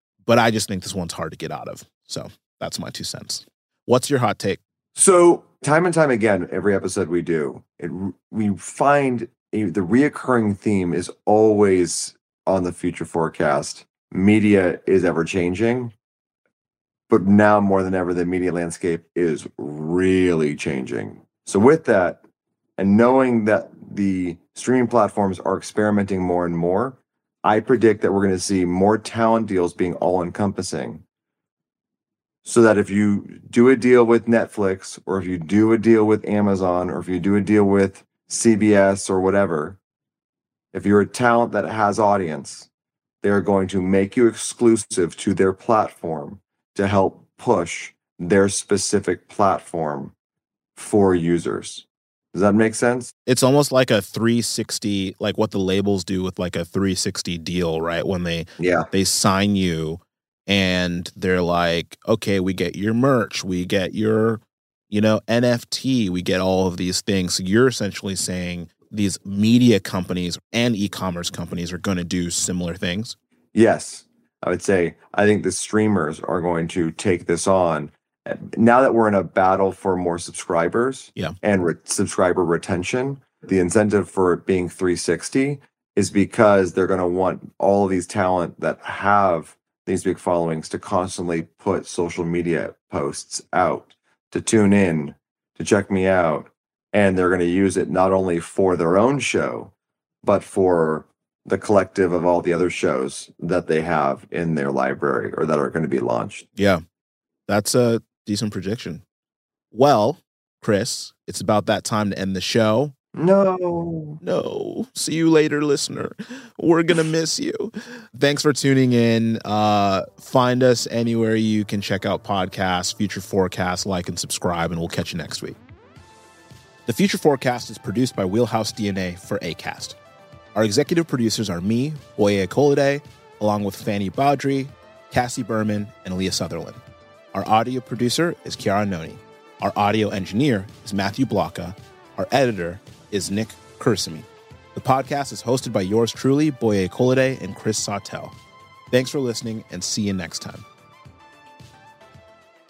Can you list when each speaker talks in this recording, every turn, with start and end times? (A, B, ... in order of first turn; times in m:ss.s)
0:00.2-0:04.6 A
0:04.9-0:15.9 B
0:17.1-0:22.2 B
0:22.8-0:31.0 B
0:32.4-0:39.8 B
0:40.7-0:42.7 B
0:43.2-0:50.1 B
0:50.8-0:53.1 B
0:53.2-1:13.2 A
0:58.6-0:58.9 B
1:13.5-1:39.7 B
1:40.2-1:46.4 B
1:46.6-1:46.8 A
1:47.5-1:49.0 A
1:49.7-1:52.9 A
1:53.2-1:54.2 B
1:54.2-2:05.6 A
2:06.8-2:10.0 A
2:10.5-2:16.8 A
2:17.3-2:28.3 A
2:28.9-2:30.6 A